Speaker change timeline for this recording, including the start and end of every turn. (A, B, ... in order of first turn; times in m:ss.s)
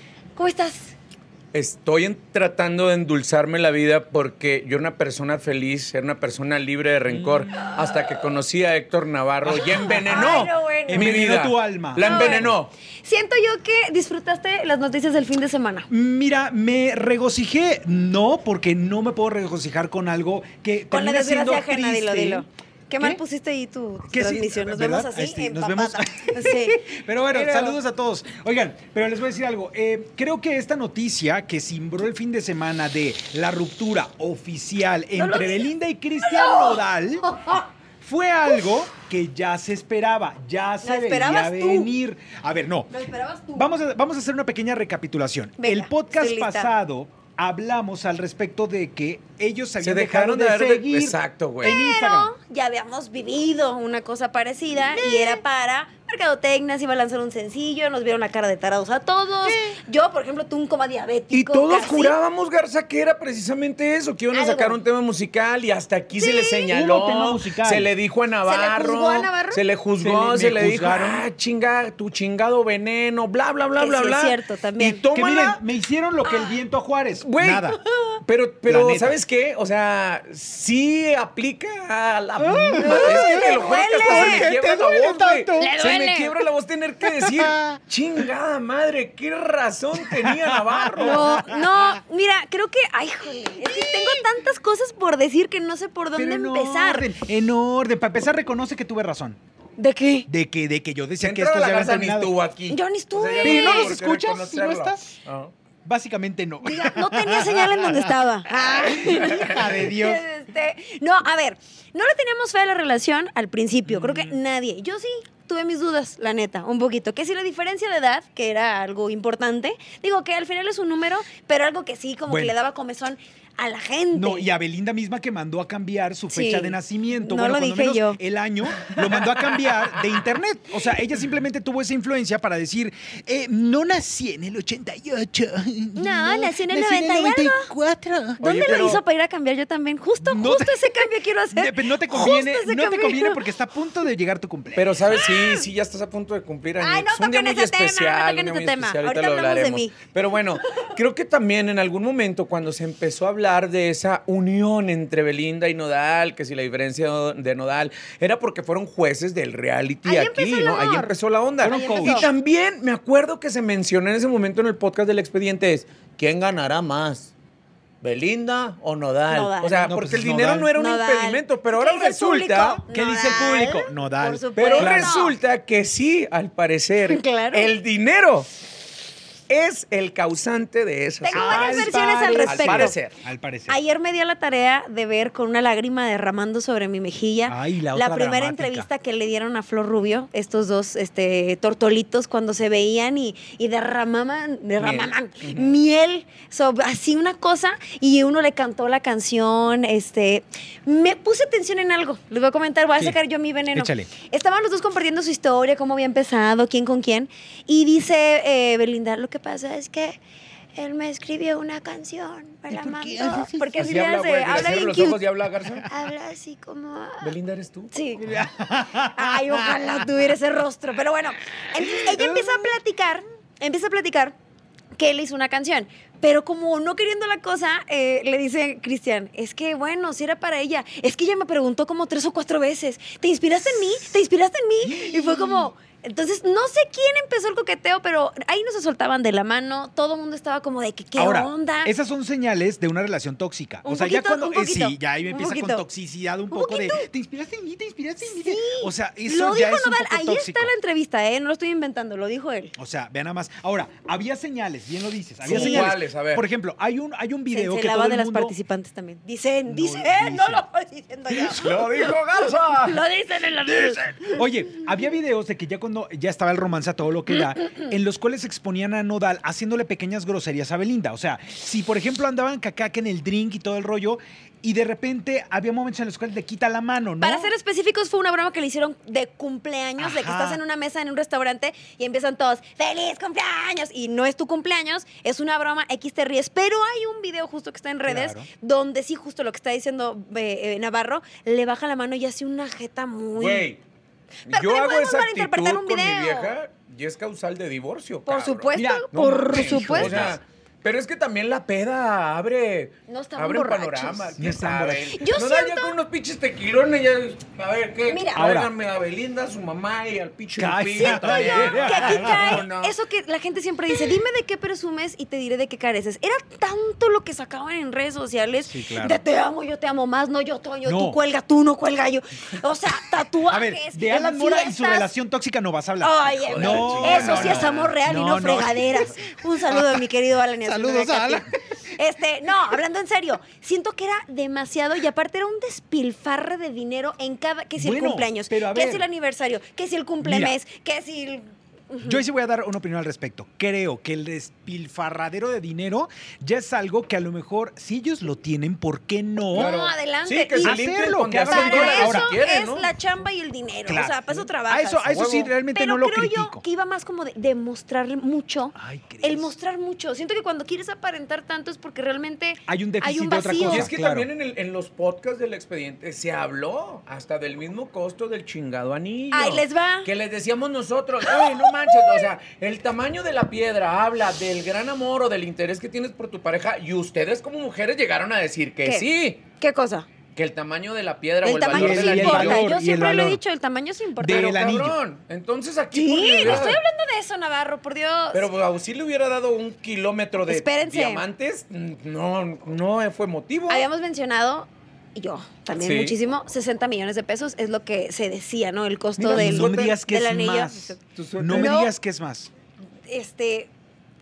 0:00.4-0:00.9 A
0:01.5-0:12.7 B
0:07.1-0:07.7 C
0:09.4-0:12.6 C
0:09.9-0:11.2 A
0:12.0-0:12.5 A
0:13.0-0:15.9 A
0:15.9-0:22.5 C
0:20.9-0:26.9 A
0:24.1-0:37.3 C
0:35.2-0:37.6 A
0:38.0-0:42.9 C
0:40.8-0:41.9 A
0:42.9-0:43.7 A
0:43.6-0:52.3 C
0:45.6-0:46.7 A
0:49.8-0:51.8 B
0:51.6-1:02.2 A
0:55.0-0:55.4 C
0:59.4-0:59.8 C
1:01.3-1:15.6 B
1:04.3-1:04.8 A
1:06.2-1:06.7 A
1:06.7-1:07.9 C
1:08.5-1:09.6 A
1:10.0-1:11.3 C
1:13.8-1:15.1 A
1:15.1-1:17.8 C
1:16.2-1:16.6 A
1:17.2-1:31.4 B
1:18.7-1:19.2 C
1:22.4-1:25.7 C
1:22.8-1:24.5 A
1:25.6-1:26.4 A
1:27.0-1:27.8 C
1:30.0-1:32.0 C
1:31.0-1:37.1 A
1:33.7-1:34.2 C
1:36.2-1:39.4 C
1:39.8-1:40.3 A
1:40.3-1:42.3 C
1:41.2-1:45.5 B
1:42.7-1:44.0 A
1:43.4-1:45.2 C
1:45.8-1:48.1 C
1:46.6-2:04.5 A
1:48.6-1:50.2 C
1:49.2-1:49.6 B
2:02.3-2:02.6 C
2:04.1-2:19.0 C
2:06.3-2:08.2 A
2:16.0-2:17.7 A
2:18.4-2:19.0 B
2:18.4-2:23.4 A
2:20.2-2:25.2 C
2:24.8-2:47.3 B
2:25.2-2:25.6 A
2:26.8-2:30.0 A
2:40.0-2:41.1 A
2:41.6-2:42.2 C
2:41.6-2:42.3 A
2:48.0-2:52.8 B
2:49.3-2:50.0 A
2:49.9-2:50.7 C
2:50.8-2:55.3 A
2:52.9-2:55.2 C
2:54.6-2:58.5 B
2:57.1-2:57.7 A
2:59.5-3:03.2 B
3:01.2-3:03.0 A
3:01.3-3:03.8 C
3:03.7-3:30.2 A
3:07.5-3:08.9 C
3:14.8-3:15.7 B
3:23.7-3:24.1 C
3:30.8-3:35.2 A
3:32.7-3:33.6 C
3:33.8-3:35.9 B
3:35.9-3:37.3 A
3:37.2-3:37.9 B
3:37.9-3:38.4 A
3:38.2-3:40.0 C
3:39.0-3:44.4 A
3:42.0-3:42.6 C
3:45.0-4:01.9 A
3:54.8-3:55.7 C
4:01.2-4:10.7 C
4:03.8-4:05.8 A
4:06.5-4:07.1 A
4:08.2-4:12.7 A
4:12.8-4:18.6 C
4:15.4-4:16.5 B
4:15.4-4:16.0 A
4:17.5-4:24.4 A
4:19.7-4:20.6 C
4:21.4-4:23.0 B
4:24.3-4:37.5 C
4:37.2-4:53.7 A
4:40.0-4:40.6 C
4:48.1-4:48.5 C
4:53.4-4:53.8 B
4:54.5-4:56.6 A
4:54.5-5:13.0 B
4:58.3-5:00.4 A
4:58.7-5:00.4 C
5:03.1-5:04.4 A
5:04.4-5:05.2 C
5:05.1-5:06.0 A
5:08.1-5:08.6 A
5:08.4-5:08.7 C
5:10.6-5:12.7 C
5:11.0-5:25.1 A
5:18.7-5:19.2 C
5:20.8-5:21.2 C
5:23.5-5:30.0 C
5:26.0-5:42.2 A
5:26.2-5:28.4 B
5:30.6-5:31.5 C
5:37.8-5:39.1 C
5:40.2-5:40.6 C
5:42.0-5:49.7 C
5:49.5-5:50.8 A
5:49.5-5:52.9 B
5:50.6-5:52.3 C
5:51.3-6:03.9 A
5:53.9-5:56.6 C
5:55.1-5:55.4 B
5:58.8-5:59.5 C
6:02.7-6:04.3 C
6:03.6-6:19.4 B
6:09.3-6:10.1 A
6:11.3-6:12.3 A
6:18.8-6:20.1 A
6:20.4-6:22.7 B
6:21.4-6:24.6 A
6:21.7-6:23.4 C
6:24.2-6:25.0 C
6:24.2-6:26.8 B
6:25.9-6:28.5 A
6:26.4-6:26.7 C
6:28.3-6:33.9 B
6:30.5-6:31.2 A
6:33.7-6:41.0 A
6:35.8-6:36.2 B
6:39.2-6:40.0 B
6:39.3-6:42.5 C
6:41.2-6:41.8 B
6:41.5-6:41.9 A
6:43.1-6:43.7 A